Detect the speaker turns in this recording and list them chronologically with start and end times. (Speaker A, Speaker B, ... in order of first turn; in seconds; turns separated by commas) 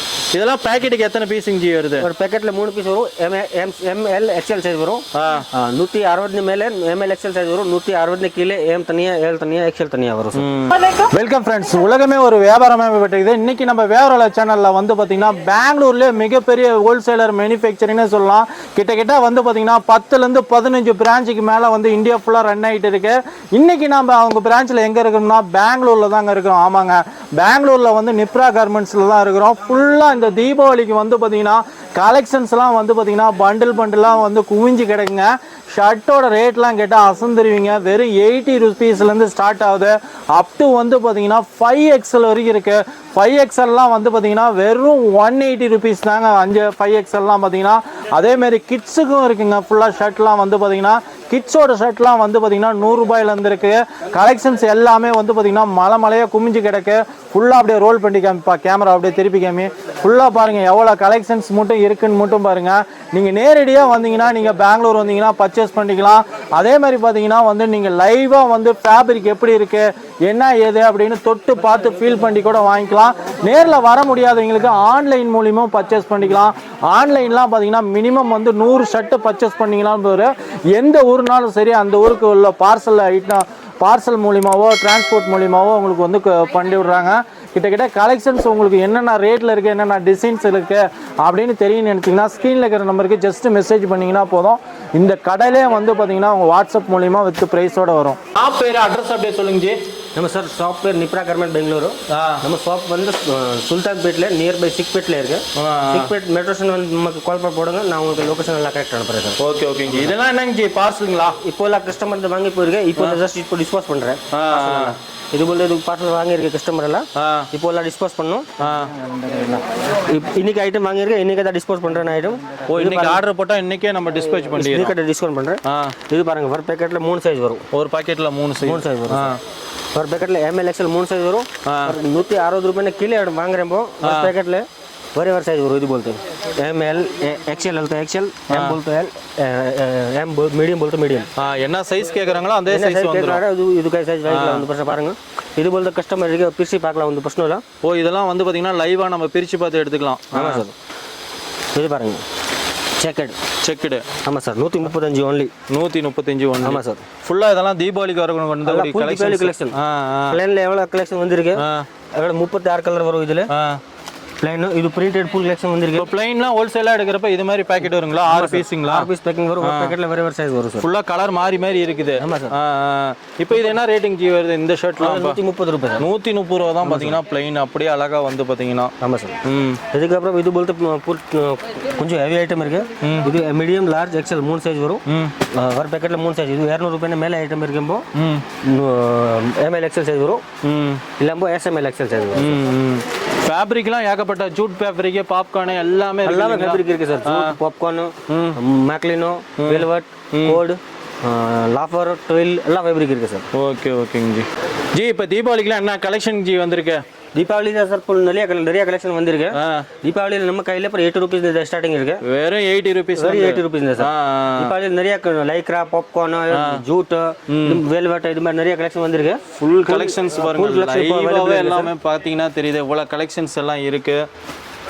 Speaker A: 0.3-2.1, Speaker B: 2.0-10.5, Speaker A: 5.1-5.5, Speaker A: 10.3-99.8, Speaker B: 100.2-109.4, Speaker A: 102.1-102.5, Speaker A: 105.5-106.1, Speaker A: 109.4-111.4, Speaker B: 111.4-118.5, Speaker A: 114.3-115.0, Speaker A: 117.2-117.5, Speaker A: 118.6-118.9, Speaker B: 119.9-123.2, Speaker A: 122.7-124.9, Speaker B: 124.4-127.7, Speaker A: 125.6-126.0, Speaker A: 127.7-129.4, Speaker B: 128.6-129.3, Speaker B: 129.9-141.3, Speaker A: 131.6-131.9, Speaker A: 134.0-134.3, Speaker A: 138.5-138.8, Speaker A: 141.3-143.4, Speaker B: 142.7-147.6, Speaker A: 144.3-144.7, Speaker A: 147.8-150.6, Speaker B: 150.3-150.7, Speaker B: 151.7-152.2, Speaker B: 153.0-153.4, Speaker A: 153.6-154.1, Speaker B: 154.2-155.5, Speaker A: 155.7-160.4, Speaker B: 156.6-157.0, Speaker B: 158.6-159.8, Speaker B: 160.3-163.5, Speaker A: 161.6-161.9, Speaker A: 163.5-163.8, Speaker B: 164.4-166.1, Speaker A: 165.9-169.1, Speaker B: 168.3-170.9, Speaker A: 169.6-169.9, Speaker A: 170.8-175.4, Speaker B: 172.2-172.6, Speaker B: 175.0-176.1, Speaker A: 176.0-178.9, Speaker B: 176.8-177.2, Speaker B: 179.0-188.1, Speaker A: 179.4-179.8, Speaker A: 183.0-183.3, Speaker A: 185.1-185.3, Speaker A: 188.1-188.4, Speaker B: 188.6-190.4, Speaker A: 190.6-191.0, Speaker B: 191.2-192.6, Speaker A: 192.3-197.6, Speaker B: 196.2-203.5, Speaker A: 198.3-198.6, Speaker A: 199.6-200.6, Speaker A: 203.5-207.0, Speaker B: 207.3-212.2, Speaker A: 209.5-209.9, Speaker A: 212.2-214.7, Speaker B: 213.2-221.9, Speaker A: 216.5-216.8, Speaker A: 217.5-217.8, Speaker A: 219.6-224.3